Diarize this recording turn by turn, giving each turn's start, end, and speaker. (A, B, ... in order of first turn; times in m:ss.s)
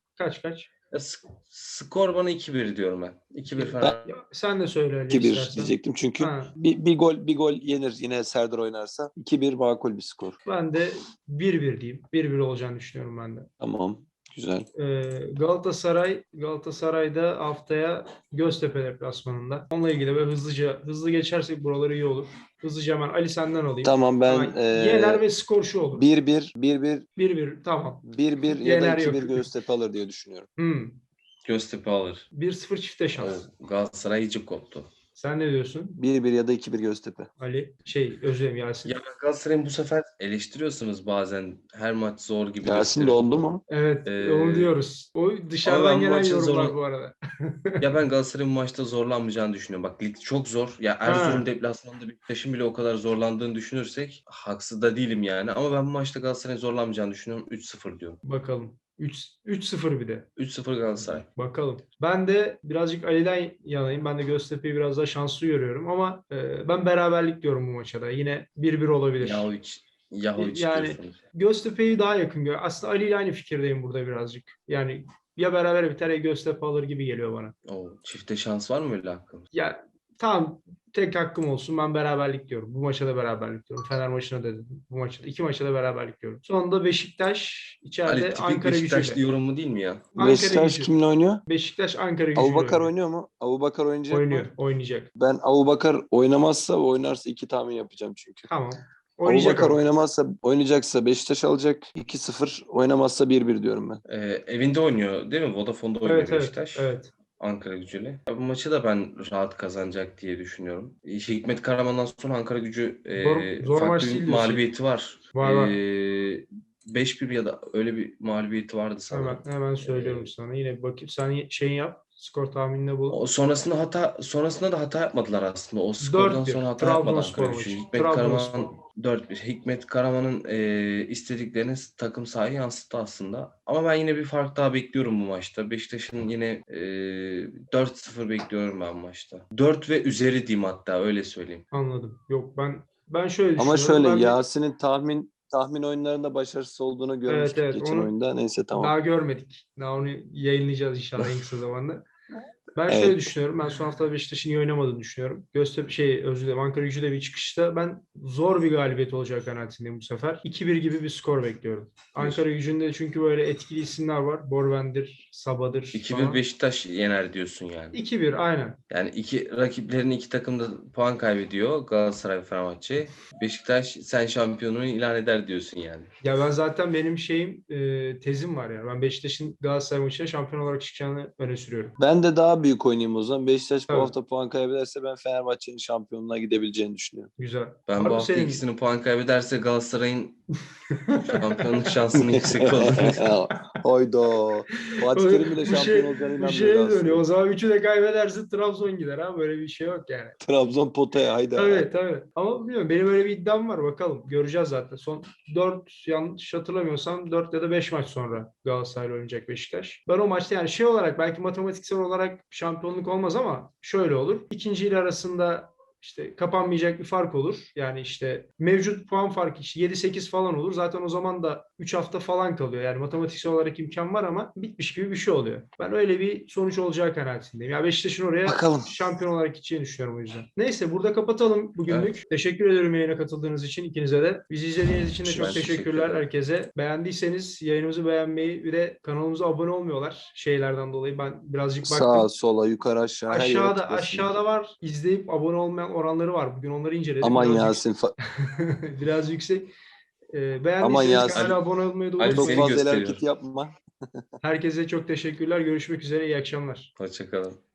0:00.2-0:00.7 A
0:00.9-0:04.1 B
0:03.6-0:06.5 A
0:05.1-0:10.4 C
0:10.4-0:13.5 A
0:13.6-0:14.7 C
0:14.8-0:26.0 A
0:23.8-0:25.2 C
0:25.9-0:27.1 C
0:27.2-0:29.5 A
0:28.0-0:30.5 C
0:30.6-0:31.0 A
0:31.4-0:32.2 B
0:32.3-0:33.4 A
0:33.2-0:34.9 B
0:35.2-0:35.9 A
0:36.0-0:37.3 C
0:37.4-0:38.9 A
0:38.8-0:43.3 B
0:42.6-0:43.6 C
0:43.7-0:47.8 A
0:44.0-0:44.7 B
0:45.6-0:46.8 B
0:47.8-0:58.2 B
0:51.0-0:51.5 A
0:58.2-1:00.3 A
1:00.4-1:01.2 B
1:01.0-1:09.5 A
1:09.2-1:11.2 B
1:10.4-1:17.5 A
1:17.7-1:19.4 B
1:19.5-1:29.2 A
1:28.0-1:30.1 B
1:30.1-1:30.9 A
1:30.2-1:31.4 C
1:31.4-1:32.9 A
1:32.3-1:34.5 C
1:34.1-1:35.1 A
1:35.2-1:38.5 C
1:38.5-1:39.8 A
1:39.2-1:44.0 C
1:44.0-2:00.3 B
1:46.0-1:47.1 A
1:53.1-1:54.6 A
1:55.3-1:55.8 A
1:59.1-2:03.2 A
2:03.1-2:21.6 B
2:06.0-2:08.8 A
2:21.7-2:24.4 A
2:23.6-2:28.9 C
2:27.3-2:28.1 A
2:28.8-2:32.0 A
2:32.8-2:46.4 A
2:32.9-2:33.2 C
2:42.2-2:42.4 B
2:45.9-2:48.0 B
2:47.9-2:48.8 A
2:48.9-2:56.1 B
2:56.2-3:02.0 A
3:02.0-3:07.3 C
3:03.9-3:04.1 A
3:07.4-3:08.6 A
3:07.9-3:10.4 B
3:10.9-3:11.2 A
3:11.2-3:13.2 B
3:12.2-3:17.2 C
3:14.9-3:20.4 A
3:20.4-3:21.9 C
3:21.5-4:02.3 A
3:48.4-3:49.0 C
3:51.9-3:52.2 B
3:55.2-3:56.2 B
3:55.4-3:55.7 C
4:01.8-4:04.4 C
4:03.3-4:07.8 A
4:07.2-4:08.1 C
4:08.4-4:09.7 A
4:10.3-4:12.7 A
4:10.8-4:11.6 C
4:11.3-4:11.6 B
4:12.2-4:13.2 B
4:12.2-4:14.2 C
4:14.4-4:16.9 A
4:17.0-4:17.6 B